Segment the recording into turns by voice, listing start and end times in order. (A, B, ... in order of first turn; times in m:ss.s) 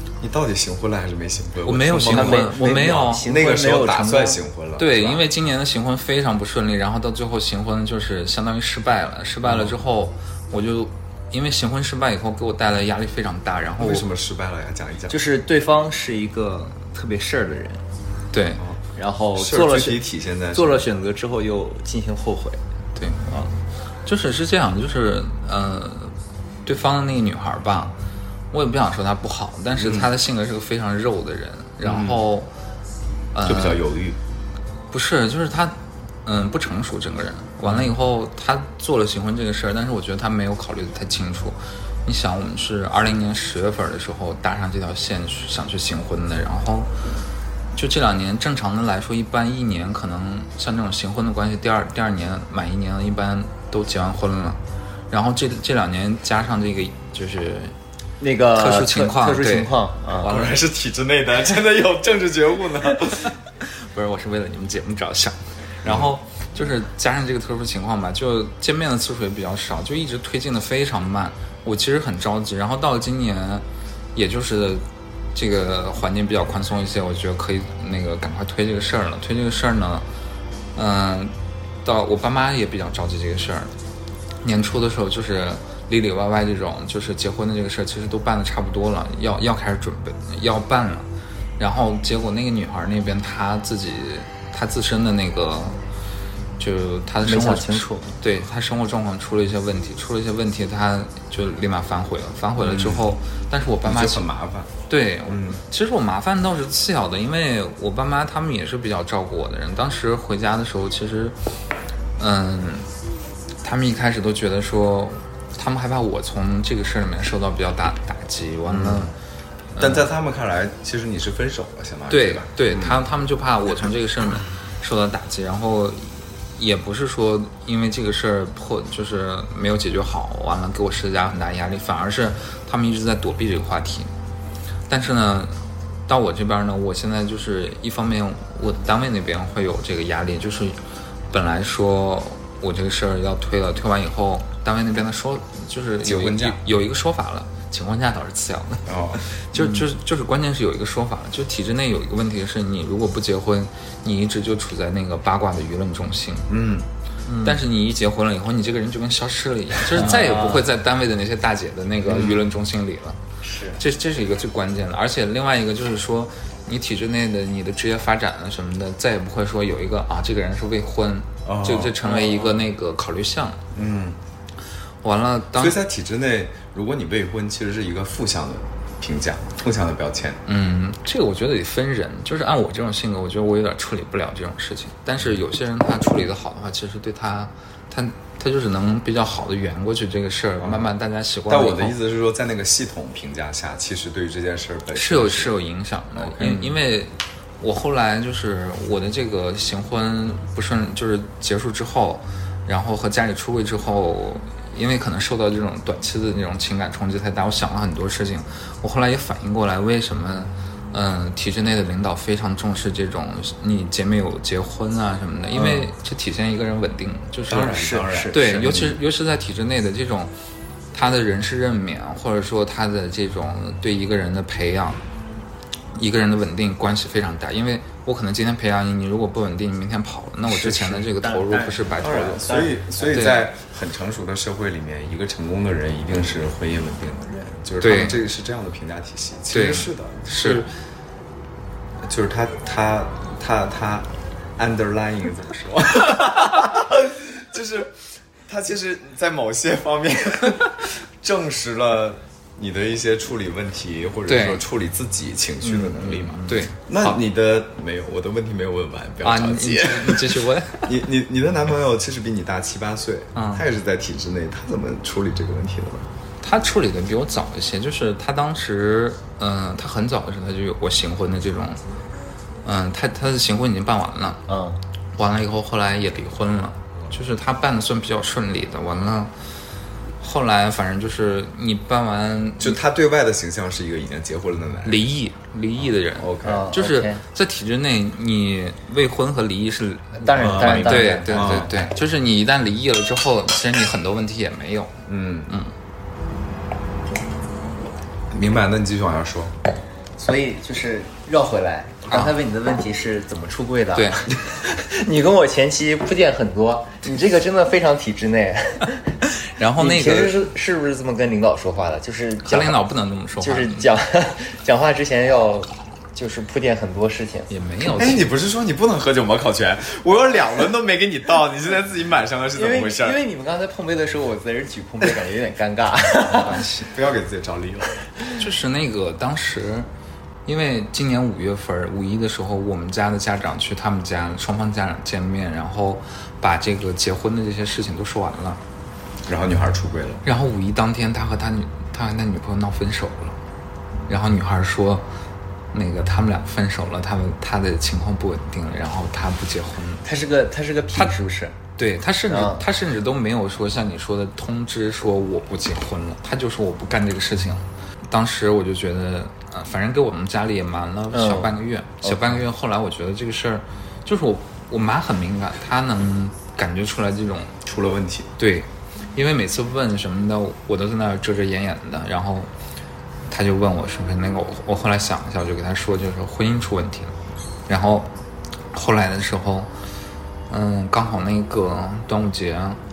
0:00.2-0:05.3 A
0:01.6-0:03.3 B
0:02.1-0:04.4 C
0:04.8-0:14.1 B
0:09.4-0:09.8 A
0:13.8-0:15.2 A
0:15.1-0:17.8 C
0:18.3-0:18.6 B
0:19.0-0:20.0 C
0:19.4-0:20.8 A
0:20.5-0:22.6 C
0:23.0-0:23.4 B
0:24.0-0:27.9 B
0:28.5-0:32.5 B
0:29.8-0:30.1 A
0:31.8-0:32.2 A
0:33.3-0:33.8 B
0:33.4-0:34.2 A
0:34.9-0:46.9 B
0:37.6-0:37.9 A
0:47.8-0:57.8 B
0:58.2-1:00.3 C
0:58.5-1:00.6 B
1:00.2-1:03.4 A
1:03.6-1:14.8 B
1:05.8-1:06.1 A
1:15.4-1:20.0 B
1:20.8-1:23.7 B
1:24.4-1:31.1 B
1:31.6-1:35.8 B
1:36.6-1:44.3 B
1:37.2-1:38.1 C
1:42.6-1:43.1 A
1:43.8-1:44.8 A
1:44.9-1:51.4 B
1:45.3-1:45.6 A
1:52.2-1:52.9 B
1:53.6-1:59.1 B
1:58.7-1:59.1 A
1:59.8-2:00.1 B
1:59.8-2:03.0 A
2:02.1-2:14.1 B
2:14.9-2:20.8 B
2:21.3-2:36.5 B
2:26.0-2:26.6 A
2:28.9-2:29.2 A
2:36.5-2:36.9 A
2:37.3-2:37.6 C
2:37.4-2:43.2 B
2:39.9-2:40.7 C
2:40.0-2:40.3 A
2:42.0-2:42.5 A
2:43.4-2:43.8 C
2:43.8-2:53.6 B
2:51.4-2:52.0 A
2:52.0-2:52.6 C
2:53.7-2:54.2 A
2:55.0-2:55.8 B
2:55.5-3:00.4 A
3:00.5-3:12.0 B
3:10.6-3:10.9 A
3:11.5-3:15.6 A
3:14.9-3:40.3 B
3:16.2-3:16.8 A
3:37.5-3:39.0 A
3:37.6-3:38.6 C
3:40.9-3:45.0 B
3:46.0-3:52.4 B
3:50.5-3:53.2 C
3:52.0-4:00.7 A
3:53.1-3:53.5 B
3:57.8-3:58.2 B
3:59.5-4:00.7 B
4:02.0-4:08.0 A
4:08.5-4:26.1 A
4:14.3-4:14.6 B
4:15.6-4:16.7 C
4:16.4-4:17.2 B
4:19.2-4:20.9 B
4:23.4-4:23.6 B
4:26.4-4:31.8 B
4:32.6-4:34.4 B
4:34.5-4:34.8 C
4:35.2-4:39.3 B
4:40.2-4:42.8 B
4:42.6-4:45.1 A
4:44.8-4:55.7 B
4:46.1-4:46.7 A
4:46.4-4:47.2 C
4:50.2-4:51.6 C
4:50.4-4:51.9 A
4:55.1-4:55.5 A
4:58.3-4:59.5 A
5:00.2-5:09.2 C
5:02.1-5:02.4 B
5:04.0-5:04.2 B
5:09.4-5:10.4 B
5:09.8-5:12.8 C
5:12.4-5:13.9 B
5:13.4-5:17.5 C
5:17.5-5:18.3 B
5:18.0-5:23.2 A
5:22.6-5:26.6 C
5:26.3-5:26.9 B
5:26.6-5:28.0 A
5:28.4-5:29.9 B
5:30.5-5:38.6 B
5:39.3-5:40.2 A
5:40.2-5:43.4 B
5:44.1-5:45.0 B
5:45.7-5:50.0 B
5:50.0-5:51.6 C
5:51.8-6:07.5 B
5:52.3-5:52.6 C
6:01.1-6:02.4 C
6:07.6-6:08.3 A
6:08.4-6:12.5 B
6:13.3-6:17.2 B
6:17.7-6:18.1 B
6:18.7-6:19.7 B
6:20.5-6:22.8 B